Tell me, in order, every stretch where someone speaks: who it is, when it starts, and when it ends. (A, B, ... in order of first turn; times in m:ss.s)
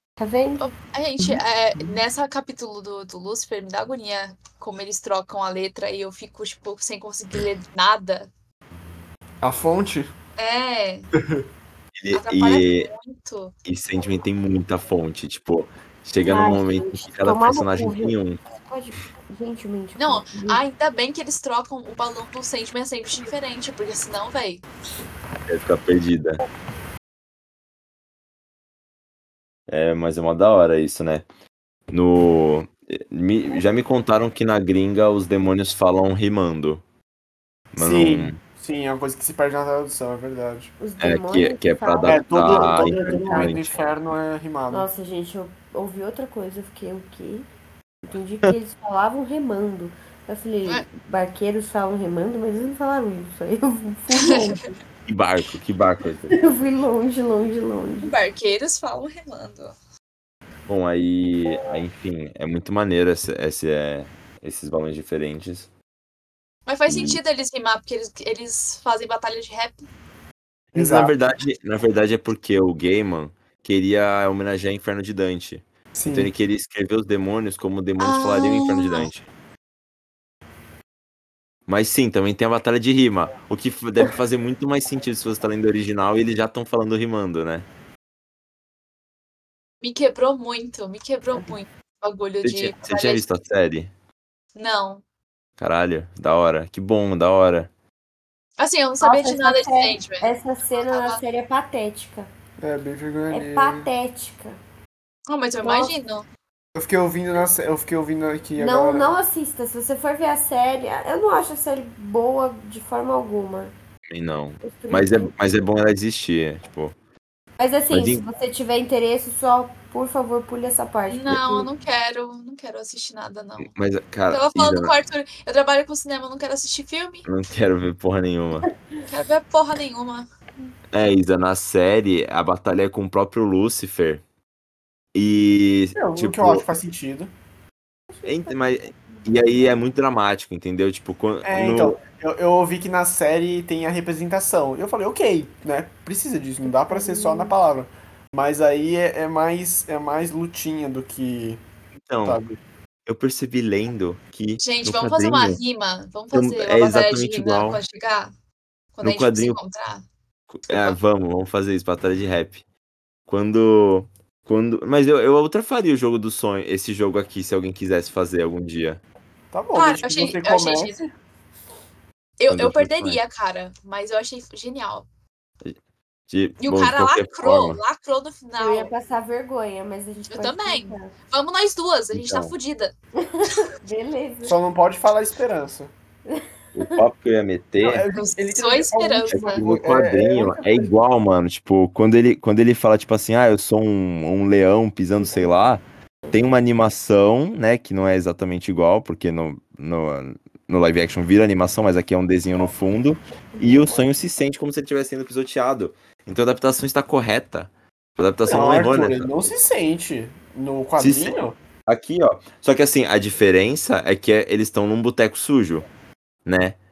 0:00.2-0:00.7 A
0:00.6-0:08.3 B
0:09.4-0:10.1 C
0:10.4-0:11.1 B
0:11.2-0:11.4 C
0:12.0-0:12.9 D
0:12.1-0:13.5 B
0:13.6-0:18.4 D
0:16.2-0:20.6 A
0:20.0-0:24.6 B
0:25.5-0:26.4 D
0:29.7-0:31.2 D
0:31.9-0:36.8 D
0:37.8-0:38.4 D
0:37.8-0:40.7 C
0:40.8-0:43.6 A
0:41.0-0:43.7 D
0:42.0-0:44.9 C
0:44.7-0:47.5 A
0:48.1-0:54.7 A
0:54.1-0:54.5 B
0:55.1-0:56.4 D
0:56.3-0:58.1 A
0:58.0-0:59.8 B
1:00.7-1:05.7 D
1:06.7-1:09.8 B
1:06.9-1:07.2 D
1:10.7-1:11.2 C
1:10.7-1:19.3 D
1:15.9-1:16.3 C
1:18.0-1:19.1 B
1:21.7-1:27.7 D
1:29.8-1:33.2 B
1:32.4-1:33.9 D
1:34.6-1:35.0 B
1:35.6-1:37.7 D
1:38.6-1:40.3 B
1:39.0-1:42.3 A
1:40.8-1:41.2 B
1:42.6-1:43.9 C
1:43.3-1:44.6 A
1:45.3-1:46.3 B
1:45.6-1:45.9 A
1:46.8-1:49.1 C
1:48.6-1:53.7 A
1:54.1-1:57.0 D
1:54.6-1:55.3 A
1:57.6-2:01.7 A
1:57.9-1:58.2 D
2:01.1-2:03.7 B
2:03.7-2:04.9 D
2:04.3-2:07.3 B
2:07.3-2:08.7 D
2:09.1-2:10.3 B
2:10.9-2:14.2 D
2:15.1-2:16.7 D
2:16.0-2:17.3 C
2:18.1-2:18.6 A
2:18.2-2:22.0 D
2:21.4-2:31.6 C
2:26.7-2:27.5 A
2:32.0-2:32.4 D
2:32.2-2:32.6 C
2:33.1-2:35.6 D
2:34.6-2:38.3 B
2:36.3-2:37.8 D
2:39.0-2:40.0 B
2:39.0-2:39.6 D
2:40.5-2:42.6 D
2:40.7-2:41.0 B
2:43.3-2:49.0 D
2:49.5-2:51.1 C
2:49.7-2:51.0 B
2:52.4-2:55.1 B
2:52.5-2:53.2 D
2:56.3-2:57.8 D
2:56.6-2:58.9 B
2:58.6-3:01.1 A
3:00.3-3:02.9 B
3:02.1-3:02.5 D
3:03.2-3:04.6 A
3:04.4-3:05.9 C
3:06.3-3:07.0 A
3:06.8-3:08.0 D
3:07.8-3:10.9 C
3:08.1-3:09.6 B
3:09.3-3:29.3 D
3:28.5-3:31.6 C
3:31.0-3:31.4 D
3:31.9-3:35.9 D
3:36.4-3:36.8 D